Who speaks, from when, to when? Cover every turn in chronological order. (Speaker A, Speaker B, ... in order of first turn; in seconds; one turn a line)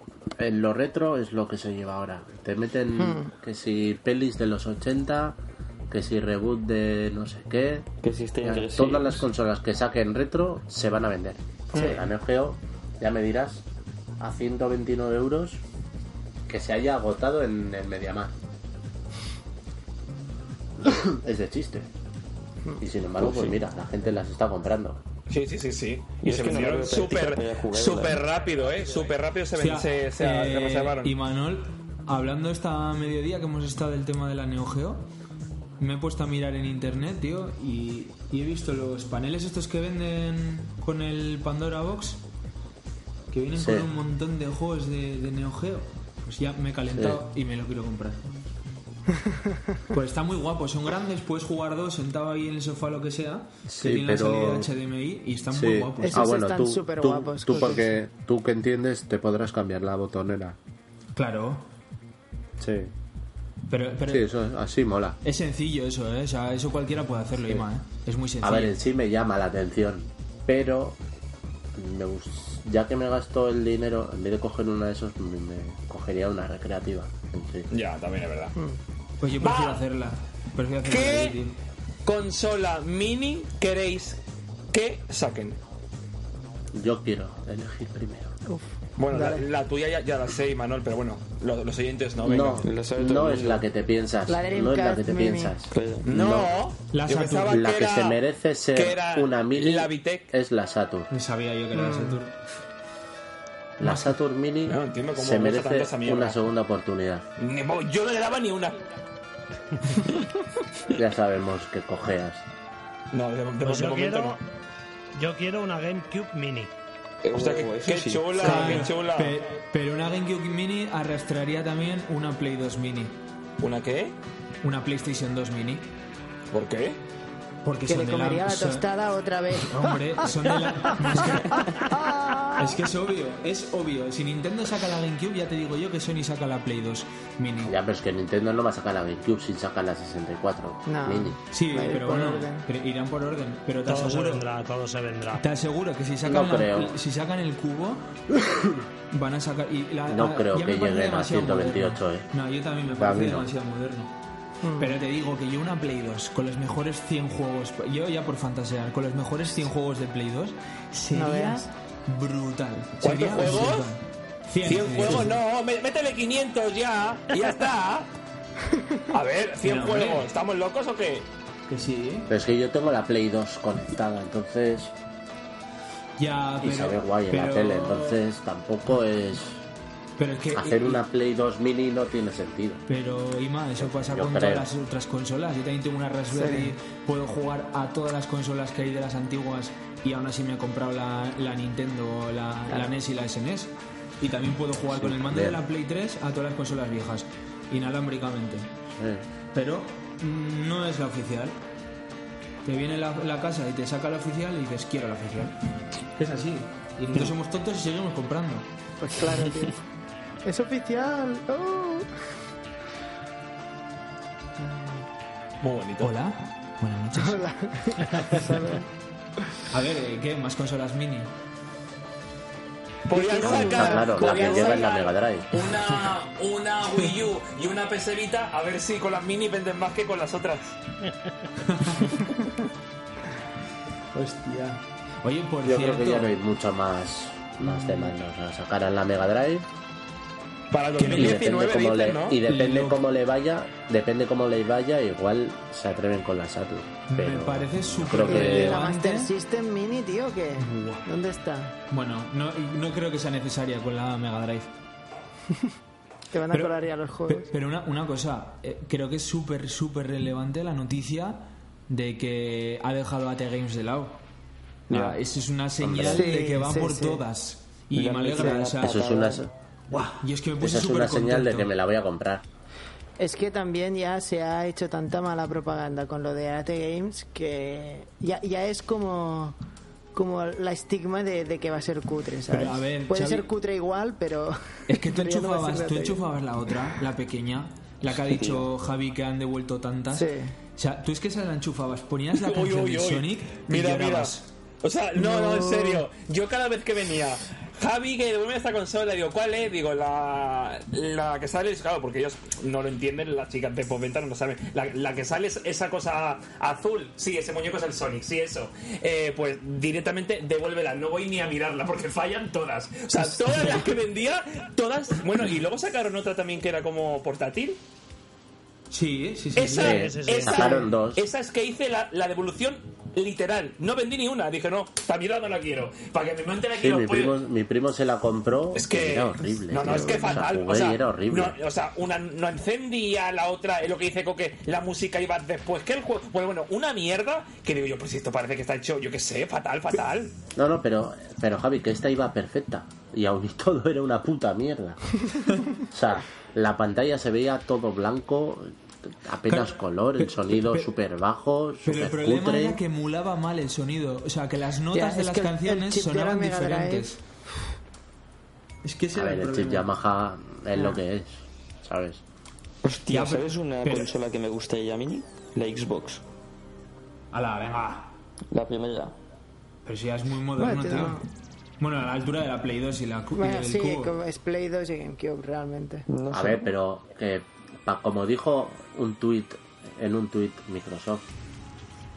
Speaker A: 0.4-5.4
Speaker B: 3.0-3.3
Speaker A: 5.9-7.9
Speaker C: 8.0-9.2
Speaker A: 8.4-13.7
Speaker B: 11.8-12.0
Speaker A: 14.2-15.6
Speaker A: 16.5-18.3
Speaker A: 20.8-21.9
Speaker A: 22.8-25.0
Speaker C: 23.2-23.5
Speaker D: 25.3-31.1
Speaker C: 26.2-28.2
Speaker E: 29.6-35.0
Speaker E: 35.8-42.2
Speaker E: 43.3-48.5
Speaker A: 43.6-43.9
Speaker A: 46.9-47.2
Speaker E: 49.9-56.3
Speaker A: 53.7-54.7
Speaker A: 55.5-60.6
Speaker B: 56.0-57.9
Speaker E: 61.1-61.6
Speaker A: 62.6-62.9
Speaker E: 63.7-64.3
Speaker A: 64.1-65.2
Speaker E: 65.2-68.8
Speaker A: 68.4-71.0
Speaker A: 71.8-77.7
Speaker D: 77.7-78.5
Speaker E: 79.2-81.6
Speaker D: 79.4-79.8
Speaker D: 80.8-81.3
Speaker D: 82.0-84.2
Speaker D: 84.7-85.6
Speaker A: 86.7-88.3
Speaker B: 88.5-89.4
Speaker D: 89.0-92.7
Speaker A: 92.2-96.5
Speaker C: 92.6-93.6
Speaker B: 94.3-95.6
Speaker C: 95.7-96.1
Speaker D: 96.1-98.2
Speaker E: 96.9-97.6
Speaker A: 97.5-101.1
Speaker D: 98.7-100.3
Speaker E: 101.1-102.4
Speaker B: 101.7-102.2
Speaker A: 103.8-107.2
Speaker E: 103.8-104.1
Speaker D: 104.7-106.4
Speaker D: 107.4-108.8
Speaker A: 110.9-112.4
Speaker D: 113.1-114.4
Speaker F: 113.6-114.4
Speaker F: 115.2-116.7
Speaker D: 117.2-119.4
Speaker C: 117.3-118.8
Speaker E: 118.4-123.2
Speaker D: 123.6-124.2
Speaker E: 124.6-125.9
Speaker D: 126.5-127.0
Speaker E: 127.7-128.9
Speaker B: 127.9-132.7
Speaker E: 129.6-131.8
Speaker E: 132.6-137.8
Speaker A: 137.6-141.4
Speaker B: 140.9-142.7
Speaker E: 141.5-144.4
Speaker F: 143.9-145.4
Speaker E: 145.3-148.0
Speaker A: 146.2-147.0
Speaker A: 148.3-148.8
Speaker E: 149.1-154.1
Speaker A: 150.1-152.3
Speaker A: 153.0-153.5
Speaker B: 154.6-154.9
Speaker E: 154.8-165.3
Speaker B: 161.1-161.7
Speaker D: 163.0-163.9
Speaker D: 164.6-168.1
Speaker D: 169.1-171.3
Speaker E: 169.6-170.3
Speaker E: 171.7-172.3
Speaker A: 172.3-174.9
Speaker E: 176.2-178.2
Speaker A: 176.6-179.6
Speaker E: 180.2-181.0
Speaker A: 180.5-182.8
Speaker E: 182.9-198.7
Speaker A: 183.8-184.7
Speaker B: 186.3-186.7
Speaker A: 194.9-195.6
Speaker A: 198.9-199.2
Speaker E: 199.5-201.6
Speaker E: 202.7-205.6
Speaker E: 206.2-208.7
Speaker B: 209.0-209.8
Speaker B: 210.4-212.1
Speaker B: 214.6-215.0
Speaker D: 215.6-216.1
Speaker E: 216.0-217.4
Speaker B: 217.2-218.9
Speaker E: 219.7-221.3
Speaker D: 223.1-230.8
Speaker B: 223.1-224.8
Speaker A: 223.4-225.6
Speaker E: 231.6-232.2
Speaker E: 234.1-236.4
Speaker A: 235.6-239.7
Speaker E: 237.6-238.1
Speaker D: 240.7-242.4
Speaker E: 241.0-241.4
Speaker A: 241.1-248.9
Speaker E: 242.5-243.1
Speaker E: 247.1-249.3
Speaker B: 248.3-251.8
Speaker E: 250.6-251.1
Speaker E: 251.9-254.7
Speaker B: 256.3-257.5
Speaker E: 256.5-264.2
Speaker C: 264.9-265.2
Speaker E: 264.9-269.0
Speaker A: 265.8-266.3
Speaker B: 266.1-267.2
Speaker C: 267.9-269.5
Speaker A: 268.8-269.5
Speaker E: 269.9-271.7
Speaker A: 270.6-272.4
Speaker B: 273.2-279.6
Speaker B: 280.1-286.3
Speaker E: 282.5-283.5
Speaker E: 284.9-294.5
Speaker C: 288.1-288.7
Speaker B: 290.1-290.6
Speaker D: 292.3-317.8
Speaker B: 295.2-296.1
Speaker E: 313.5-313.8
Speaker E: 318.9-320.0
Speaker D: 319.6-327.4
Speaker A: 319.8-321.2
Speaker F: 319.8-320.8
Speaker A: 326.8-331.6
Speaker D: 328.7-340.4
Speaker A: 340.6-345.0
Speaker A: 345.9-348.7
Speaker A: 349.2-352.8
Speaker E: 349.5-350.9
Speaker E: 351.8-357.2
Speaker B: 354.9-357.1
Speaker E: 358.8-359.9
Speaker A: 359.1-362.2
Speaker C: 362.8-366.2
Speaker E: 363.1-364.1
Speaker E: 367.3-368.1
Speaker C: 368.5-369.1
Speaker E: 369.9-371.2
Speaker B: 370.6-371.2
Speaker E: 371.8-374.2
Speaker B: 373.4-376.1
Speaker C: 376.1-376.7
Speaker A: 376.3-381.2